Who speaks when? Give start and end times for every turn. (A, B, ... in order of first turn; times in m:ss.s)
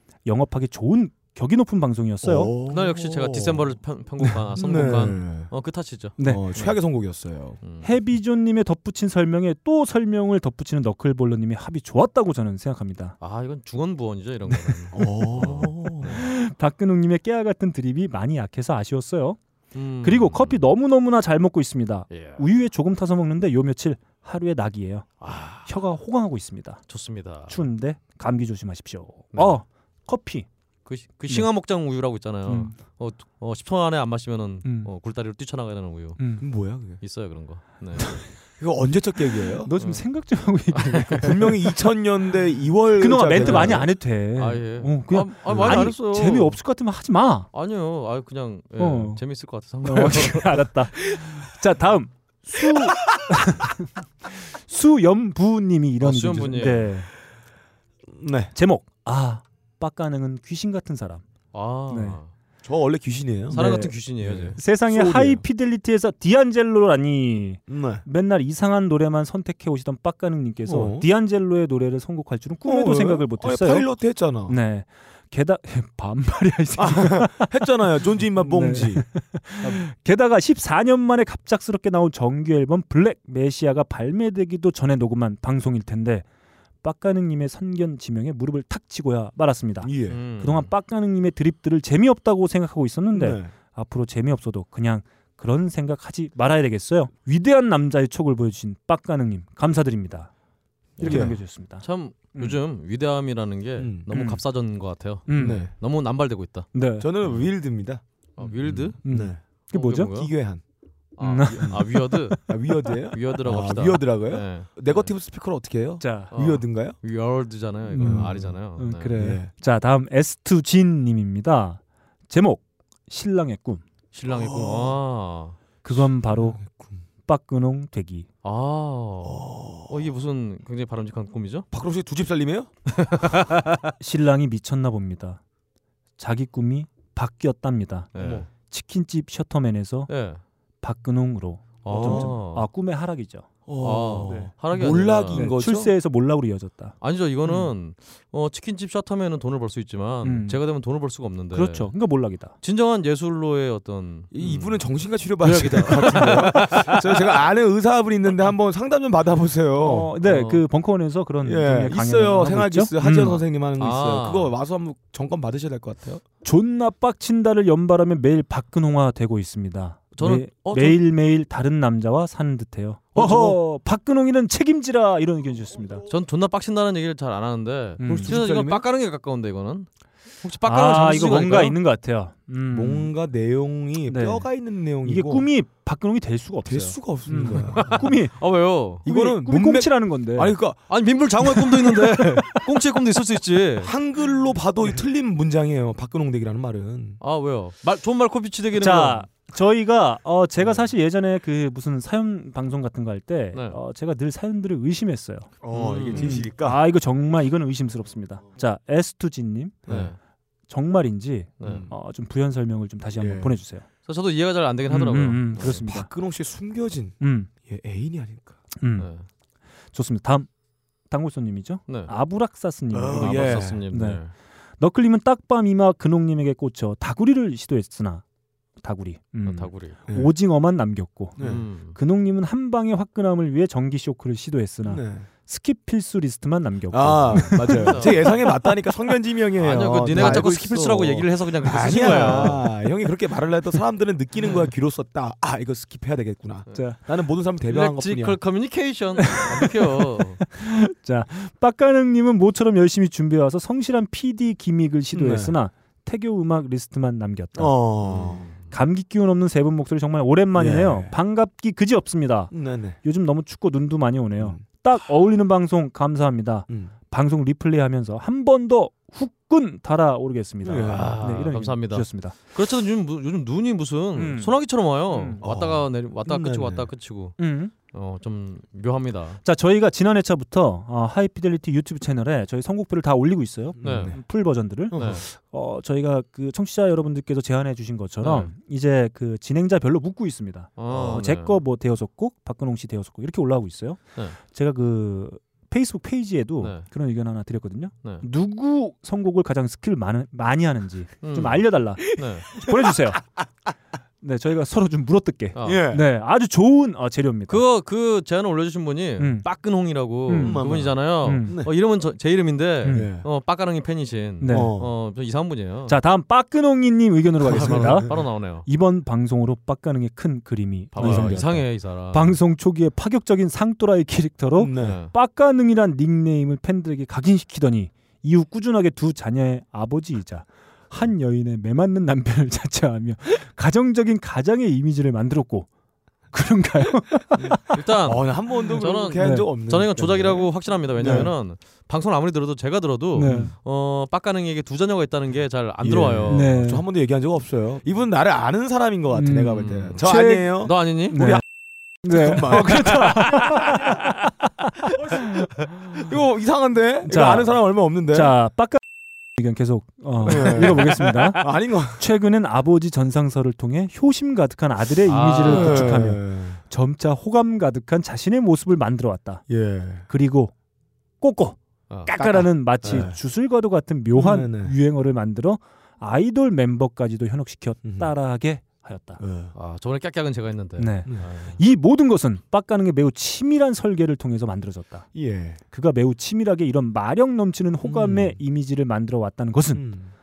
0:00.2-0:02.5 A
0:02.2-0:03.7 B
0:02.7-0:06.8 C
0:04.6-0:05.5 B
0:06.2-0:06.4 A
0:06.2-0:07.6 B
0:07.6-0:07.9 C
0:07.8-0:13.1 A
0:13.2-0:16.3 C
0:14.6-0:19.4 A
0:14.9-0:16.1 B
0:19.7-0:20.6 C
0:20.0-0:26.9 A
0:22.1-0:22.4 C
0:25.2-0:25.7 C
0:26.9-0:27.6 C
0:27.5-0:30.5 A
0:30.8-0:36.4 C
0:32.4-0:32.7 A
0:34.6-0:34.9 A
0:36.2-0:36.4 A
0:36.4-0:37.0 B
0:37.0-0:38.2 C
0:38.6-0:39.7 B
0:39.6-0:41.5 A
0:39.8-0:40.0 C
0:40.7-0:41.2 C
0:41.2-0:43.8 B
0:43.0-0:47.5 A
0:43.4-0:46.6 C
0:45.5-0:45.9 B
0:47.5-0:50.6 C
0:48.8-0:49.2 A
0:49.8-0:53.9 A
0:54.5-0:57.1 A
0:56.0-0:56.9 C
0:58.1-0:58.5 B
0:58.5-1:01.2 A
1:01.5-1:02.3 C
1:01.9-1:02.2 A
1:02.6-1:03.6 B
1:03.5-1:04.6 C
1:03.5-1:03.9 A
1:04.2-1:05.4 B
1:04.5-1:13.9 A
1:07.7-1:08.0 B
1:10.7-1:11.0 B
1:12.6-1:14.6 B
1:14.4-1:17.7 A
1:16.8-1:19.0 B
1:18.4-1:26.2 A
1:26.8-1:40.3 A
1:29.8-1:30.2 B
1:30.1-1:30.7 C
1:33.1-1:33.5 B
1:41.0-1:47.5 C
1:41.0-1:42.6 A
1:41.0-1:41.4 B
1:43.8-1:44.0 B
1:44.1-1:44.4 A
1:45.2-1:45.7 A
1:45.4-1:45.7 B
1:46.7-1:47.1 A
1:47.0-1:49.4 B
1:48.4-1:49.0 C
1:49.0-1:50.1 A
1:49.7-1:50.3 C
1:50.1-1:50.6 B
1:51.2-1:52.5 C
1:51.2-1:52.5 A
1:51.6-1:57.0 B
1:53.1-1:55.1 C
1:56.0-1:56.3 A
1:56.3-1:59.2 C
1:57.9-2:03.8 A
1:58.0-1:58.6 B
1:59.1-1:59.5 B
2:04.1-2:05.6 C
2:04.2-2:05.0 B
2:05.8-2:06.6 A
2:06.2-2:07.0 B
2:07.2-2:08.3 A
2:08.4-2:11.6 C
2:09.2-2:09.9 B
2:11.7-2:12.7 B
2:13.0-2:13.8 C
2:14.0-2:15.4 A
2:16.2-2:18.1 A
2:18.1-2:18.4 C
2:18.2-2:18.5 B
2:18.6-2:20.1 A
2:20.1-2:20.4 C
2:20.8-2:23.5 A
2:21.8-2:22.7 C
2:21.9-2:22.3 B
2:23.7-2:25.9 B
2:23.8-2:25.4 C
2:24.2-2:24.5 A
2:25.3-2:27.7 A
2:27.0-2:31.9 C
2:30.2-2:30.6 A
2:31.5-2:32.5 A
2:32.6-2:37.0 C
2:34.3-2:40.1 B
2:39.8-2:43.4 A
2:40.2-2:40.6 C
2:41.4-2:46.2 B
2:43.8-2:44.5 C
2:46.4-2:56.0 A
2:50.2-2:51.0 C
2:53.1-2:53.6 C
2:56.1-2:59.9 C
2:58.0-2:58.4 A
2:58.0-2:58.8 B
3:00.4-3:01.8 C
3:00.6-3:03.1 A
3:02.7-3:05.5 B
3:04.1-3:04.5 A
3:05.0-3:08.3 A
3:06.6-3:08.1 B
3:07.5-3:09.0 C
3:09.0-3:10.6 A
3:09.0-3:10.9 B
3:10.9-3:13.9 C
3:13.8-3:17.2 B
3:17.2-3:19.2 C
3:18.8-3:25.5 A
3:25.6-3:26.8 B
3:25.7-3:26.3 C
3:26.1-3:29.8 A
3:29.9-3:30.1 B
3:29.9-3:30.2 C
3:30.7-3:33.9 A
3:31.6-3:31.8 C
3:31.6-3:31.9 B
3:33.2-3:33.6 B
3:34.0-3:35.8 C
3:34.9-3:36.1 A
3:35.8-3:38.6 B
3:37.2-3:37.5 A
3:38.8-3:39.1 A
3:39.0-3:39.2 C
3:39.9-3:40.5 A
3:41.1-3:44.2 A
3:42.9-3:43.8 B
3:43.1-3:44.3 C
3:44.8-3:48.2 A
3:48.8-3:58.1 A
3:49.4-3:50.0 C
3:51.4-3:51.6 B
3:51.4-3:52.0 C
3:54.8-3:55.3 B
3:56.9-4:08.4 B
3:57.7-3:58.5 C
3:59.6-4:02.7 C
4:00.1-4:00.5 A
4:06.7-4:07.0 A
4:07.7-4:10.4 C
4:10.5-4:17.8 A
4:15.1-4:15.5 B
4:17.6-4:18.4 B
4:18.0-4:18.6 C
4:18.7-4:32.4 A
4:20.5-4:21.1 B
4:22.5-4:23.0 B
4:30.6-4:31.2 B
4:30.8-4:39.4 C
4:34.2-4:34.6 A
4:35.1-4:35.4 A
4:35.4-4:36.9 B
4:37.4-4:37.7 A
4:39.4-5:03.2 A
4:43.8-4:44.2 B
4:43.8-4:44.1 C
4:44.9-4:45.2 C
4:44.9-4:45.3 B
4:48.2-4:48.5 C
4:50.8-4:51.6 C
4:56.6-4:56.8 C
5:01.2-5:02.6 C
5:04.2-5:07.6 A
5:05.6-5:05.8 C
5:05.6-5:06.1 B
5:07.5-5:16.0 C
5:09.2-5:09.4 A
5:10.3-5:11.5 A
5:10.4-5:11.7 B
5:12.9-5:13.2 B
5:14.4-5:14.7 A
5:14.5-5:14.9 B
5:15.9-5:35.7 A
5:17.4-5:18.2 B
5:17.5-5:18.6 C
5:20.9-5:22.4 C
5:21.0-5:21.4 B
5:24.6-5:25.0 B
5:24.8-5:25.1 C
5:36.3-5:37.6 A
5:37.4-5:46.5 C
5:38.0-5:41.3 B
5:39.2-5:39.5 A
5:43.2-5:43.5 A
5:43.2-5:43.5 B
5:45.8-5:51.4 B
5:46.3-5:46.8 A
5:49.1-5:51.4 A
5:49.5-5:51.2 C
5:52.0-5:53.9 B
5:52.0-5:54.2 A
5:55.9-5:58.3 B
5:57.0-5:58.8 A
5:59.4-6:09.4 A
6:00.2-6:02.0 B
6:05.0-6:06.0 C
6:05.4-6:06.6 B
6:09.5-6:10.0 B
6:10.1-6:10.5 A
6:11.2-6:19.2 A
6:12.1-6:13.2 B
6:14.1-6:14.7 B
6:17.8-6:18.1 B
6:19.2-6:19.5 B
6:19.5-6:21.6 C
6:20.8-6:25.1 A
6:25.1-6:25.6 B
6:25.7-6:29.8 A
6:27.8-6:28.4 B
6:29.7-6:30.1 B